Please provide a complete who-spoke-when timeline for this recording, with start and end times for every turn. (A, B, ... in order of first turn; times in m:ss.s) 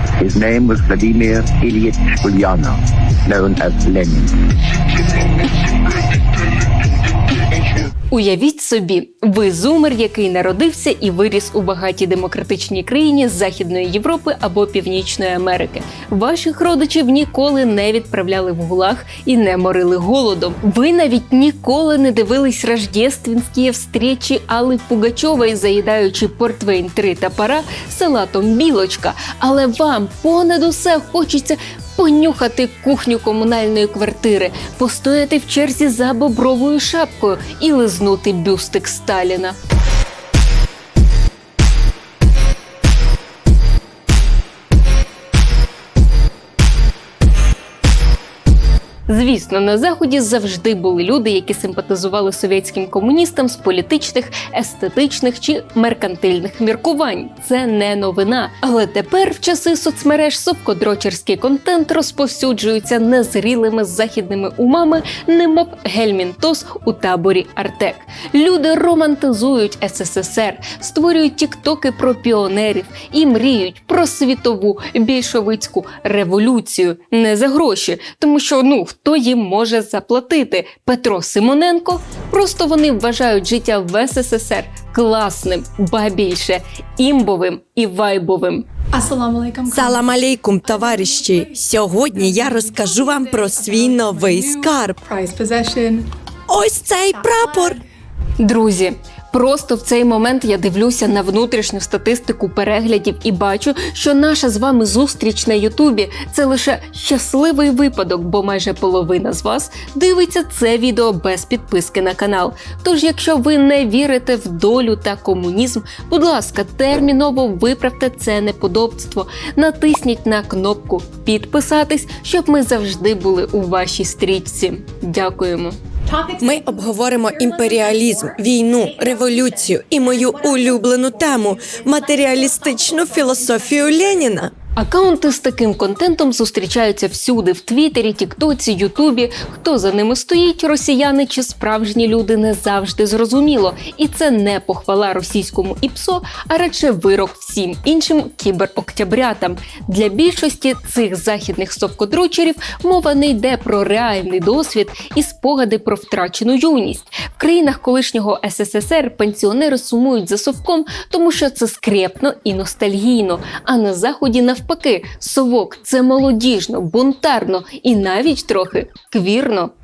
0:00.2-0:04.3 A
0:08.1-0:39.6 B
0:49.1-1:28.7 B
1:28.9-1:30.1 C
1:29.7-1:35.0 D
1:30.7-1:31.5 C
1:32.1-1:36.1 C
1:36.5-1:37.8 D
1:37.1-1:37.8 C
1:38.4-2:05.8 B
2:06.1-2:14.4 C
2:06.4-2:14.5 D
2:14.8-2:49.7 B